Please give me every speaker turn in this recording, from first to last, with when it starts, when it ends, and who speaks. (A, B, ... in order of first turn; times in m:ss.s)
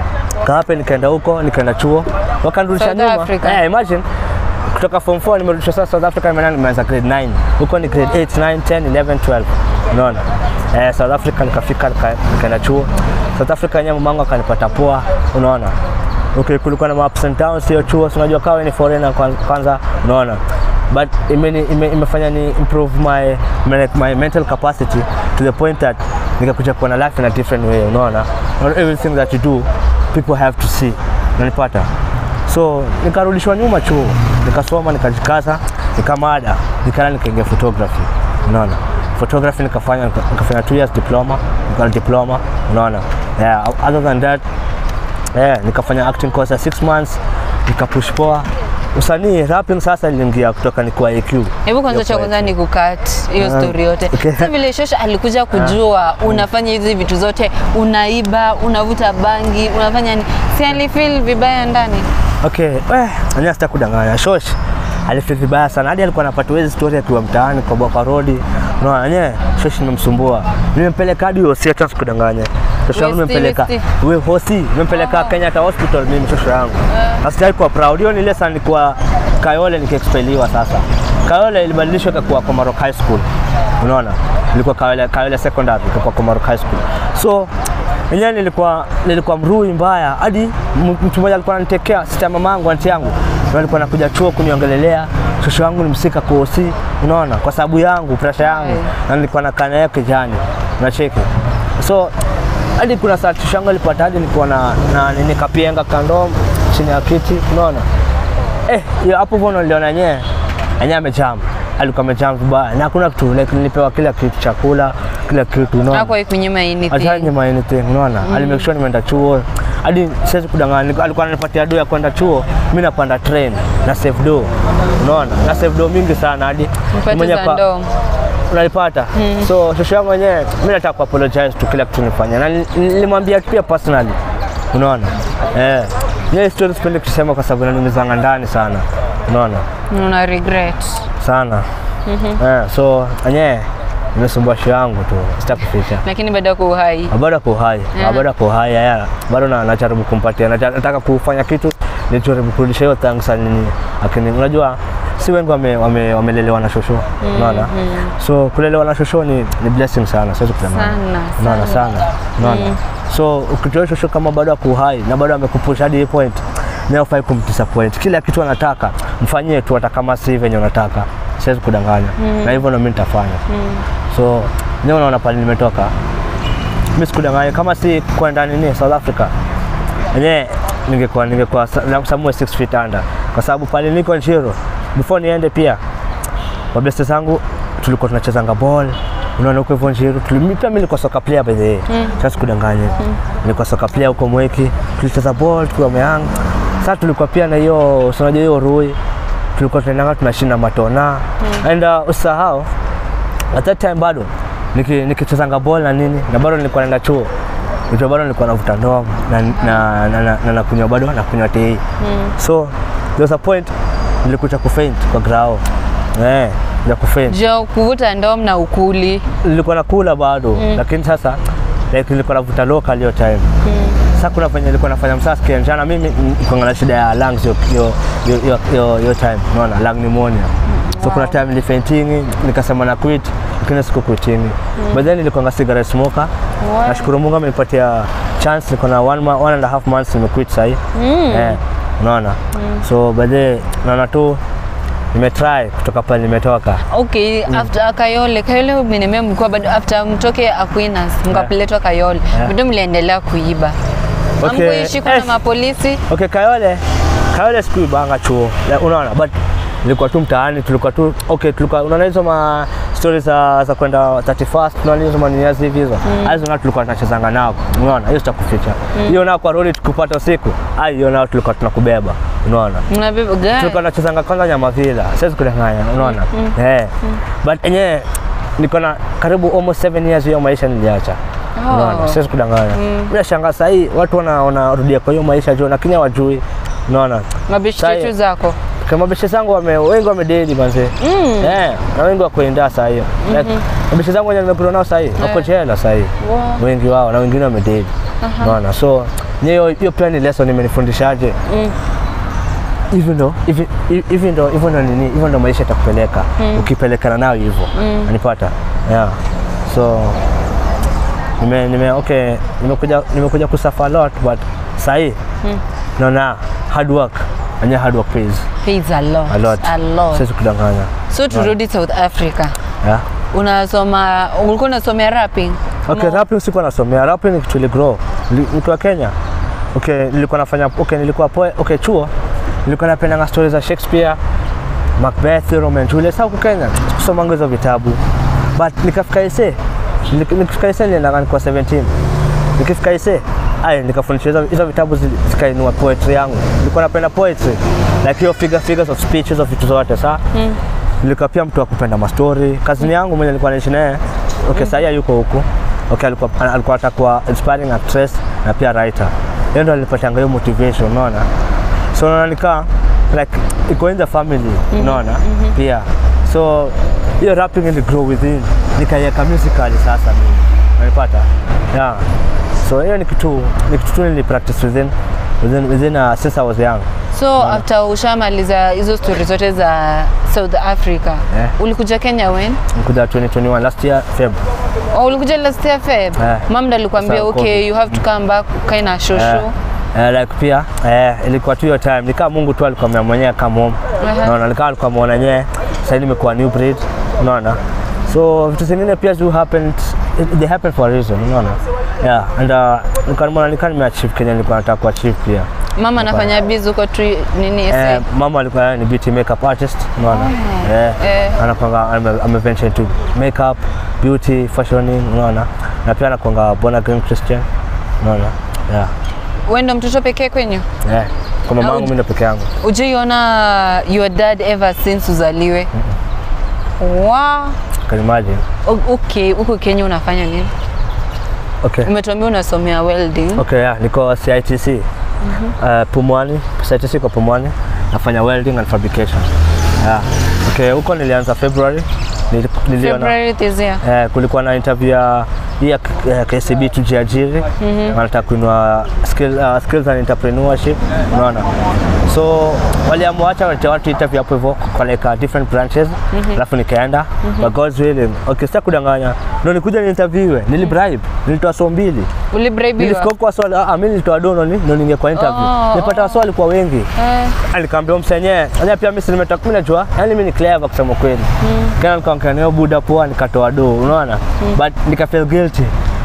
0:00.4-0:04.0 A
0:02.8-0:03.6 B
0:04.7-0:15.8 A
0:16.3-0:31.9 A
0:32.5-0:44.4 A
0:45.3-0:52.5 A
0:51.6-1:02.1 B
0:53.4-0:54.5 A
1:02.4-1:23.3 A
1:12.9-1:13.9 B
1:15.0-1:15.3 B
1:23.8-1:27.5 A
1:28.1-1:42.1 A
1:38.4-1:38.9 B
1:42.8-1:47.9 A
1:48.7-1:50.3 A
1:50.8-1:56.1 A
1:55.9-1:57.3 B
1:56.9-2:07.6 A
1:58.2-1:58.7 B
2:06.9-2:07.9 B
2:08.5-2:14.2 A
2:09.1-2:09.5 B
2:14.7-2:19.7 A
2:19.9-2:21.1 B
2:21.2-2:21.7 A
2:22.1-2:22.4 B
2:22.4-2:26.0 A
2:26.0-2:27.1 B
2:27.1-2:53.4 A
2:27.9-2:28.3 B
2:37.2-2:38.1 B
2:40.7-2:41.9 B
2:42.4-2:42.8 B
2:52.2-2:52.6 B
2:53.5-2:53.8 B
2:54.1-2:55.9 A
2:57.0-2:59.3 A
3:00.1-3:05.8 A
3:06.7-3:19.0 A
3:11.9-3:12.2 B
3:19.6-3:22.7 A
3:23.5-3:27.3 A
3:27.9-3:31.8 A
3:32.0-3:32.3 B
3:32.4-3:33.7 A
3:34.2-3:35.6 A
3:36.2-3:37.4 A
3:37.3-3:39.3 B
3:39.4-3:41.4 A
3:40.6-3:40.8 B
3:41.9-3:43.5 A
3:43.6-3:44.0 B
3:44.1-3:56.3 A
3:50.7-3:51.4 B
3:54.8-3:55.0 B
3:56.6-3:57.1 B
3:56.8-4:04.4 A
4:00.9-4:01.6 B
4:02.5-4:02.8 B
4:05.1-4:06.8 A
4:06.9-4:13.8 B
4:14.4-4:15.3 A
4:14.4-4:16.0 B
4:16.1-4:32.8 A
4:26.0-4:26.4 B
4:32.9-4:33.8 B
4:33.5-4:38.1 A
4:36.0-4:37.2 B
4:38.6-4:48.1 A
4:41.6-4:42.2 B
4:42.7-4:43.1 B
4:47.5-4:48.6 B
4:48.8-4:57.9 A
4:51.0-4:51.5 B
4:53.2-4:53.6 B
4:55.2-4:55.5 B
4:56.2-4:56.6 B
4:58.2-4:58.5 B
4:58.4-5:01.4 A
5:01.5-5:01.8 B
5:02.9-5:10.2 A
5:06.4-5:06.7 B
5:07.7-5:08.1 B
5:11.4-5:15.2 A
5:16.0-5:18.5 A
5:18.6-5:20.2 B
5:19.3-5:21.5 A
5:21.1-5:22.6 B
5:23.3-5:26.2 B
5:25.9-5:29.1 A
5:29.7-5:32.1 A
5:32.6-5:34.2 A
5:35.0-5:38.0 A
5:38.6-5:41.9 A
5:42.6-5:50.2 A
5:50.3-5:50.6 B
5:51.0-6:01.3 A
5:54.6-5:54.8 B
6:01.9-6:12.1 A
6:04.7-6:05.5 B
6:12.6-6:17.6 A
6:17.1-6:22.6 B
6:22.7-6:24.4 A
6:24.9-6:29.5 B
6:26.2-6:27.7 A
6:29.1-6:46.3 A
6:34.0-6:34.4 B
6:45.8-6:48.0 B
6:47.7-6:57.5 A
6:50.0-6:51.4 B
6:58.0-6:58.9 A
6:59.5-7:00.7 B
7:00.8-7:02.5 A
7:01.6-7:01.9 B
7:02.6-7:05.7 B
7:06.8-7:07.6 B
7:07.9-7:08.4 A
7:08.6-7:10.5 B
7:11.6-7:11.9 A
7:11.8-7:13.4 B
7:13.4-7:14.9 A
7:15.2-7:15.5 B
7:15.6-7:23.1 A
7:22.8-7:23.8 B
7:23.8-7:31.5 A
7:27.6-7:28.0 B
7:32.0-7:42.1 A
7:36.1-7:36.4 B
7:37.2-7:37.5 B
7:42.3-7:43.1 B
7:42.8-7:55.7 A
7:45.2-7:46.2 B
7:47.0-7:47.4 B
7:51.4-7:51.8 B